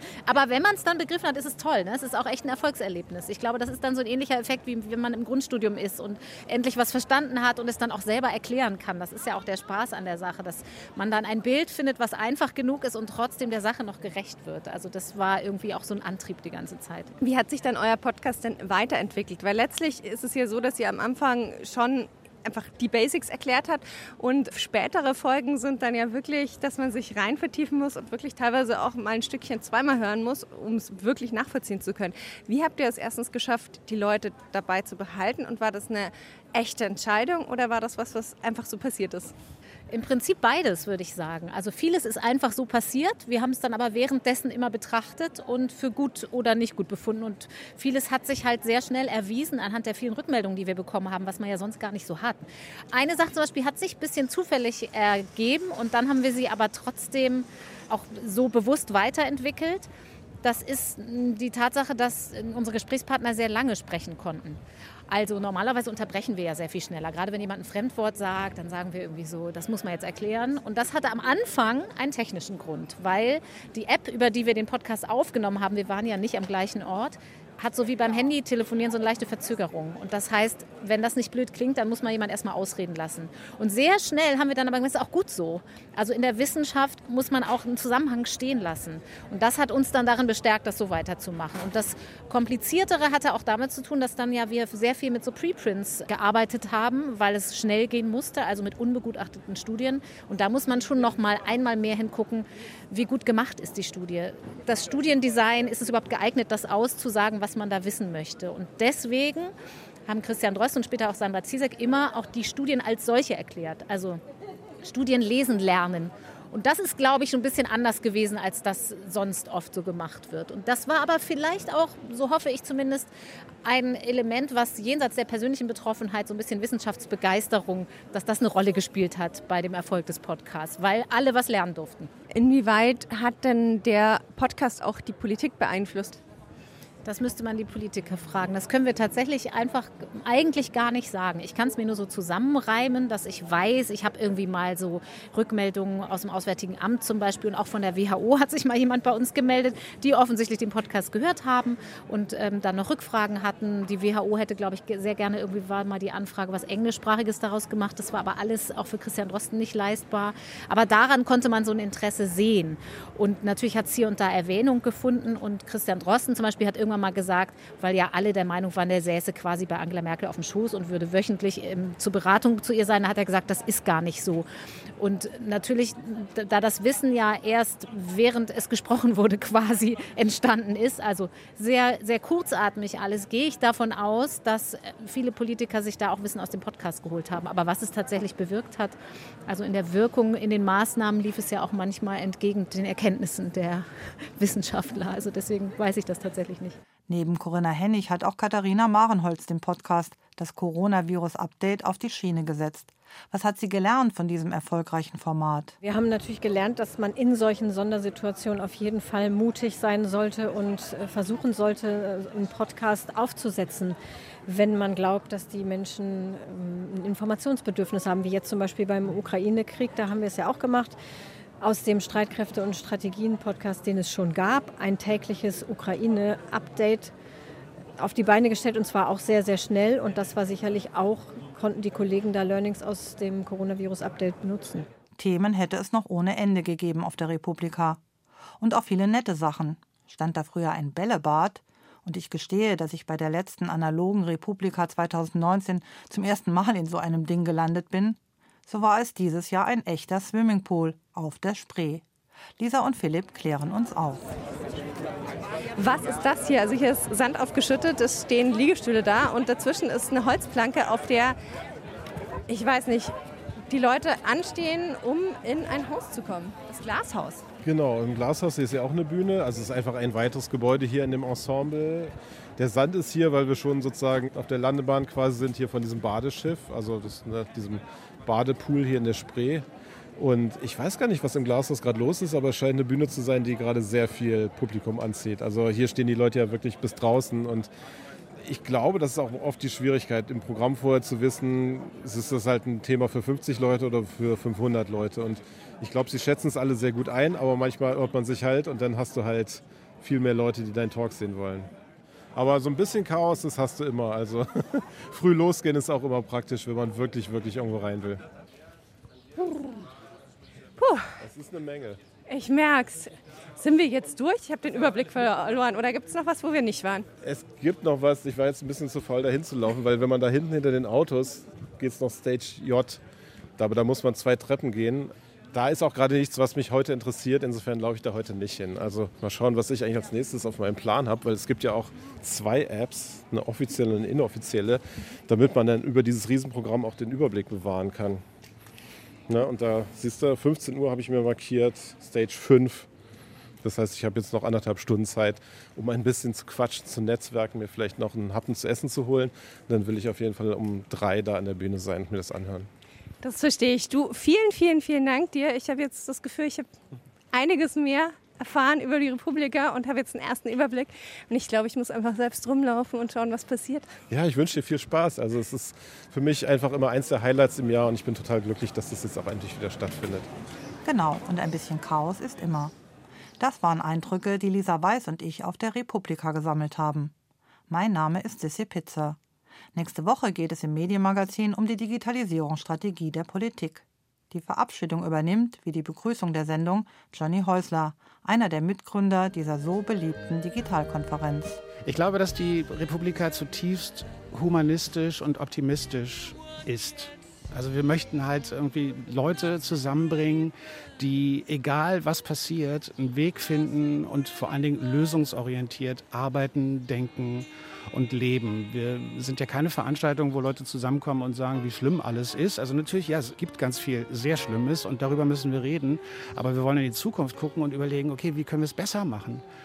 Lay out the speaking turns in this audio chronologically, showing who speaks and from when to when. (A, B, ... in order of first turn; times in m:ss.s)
0:00.2-0:17.1 A
0:17.2-0:39.3 B
0:39.9-0:59.9 A
1:00.4-1:49.5 A
1:50.1-1:54.2 A
1:54.8-2:03.1 A
2:03.6-2:12.1 A
2:12.3-2:16.2 B
2:17.0-2:54.4 A
2:55.0-3:09.0 A
3:09.5-3:16.8 A
3:17.1-3:25.7 C
3:25.8-3:41.0 D
3:41.6-3:47.1 D
3:48.0-3:54.9 D
3:55.2-3:58.0 C
3:58.6-4:12.0 C
4:12.6-4:14.2 C
4:15.8-4:21.4 B
4:22.5-4:23.1 B
4:23.7-4:27.4 B
4:27.6-4:39.6 E
4:40.2-4:47.7 E
4:48.4-5:01.7 E
5:02.3-5:08.2 E
5:10.8-5:11.0 B
5:11.2-5:12.0 E
5:12.3-5:17.1 B
5:17.2-5:23.0 E
5:23.6-5:38.2 E
5:39.3-5:42.9 E
5:43.6-5:52.7 E
5:53.2-5:56.7 B
5:57.3-6:03.9 B
6:04.1-6:10.3 E
6:10.8-6:12.7 C
6:13.4-6:17.1 C
6:17.7-6:19.2 C
6:19.7-6:31.6 C
6:31.8-6:59.4 F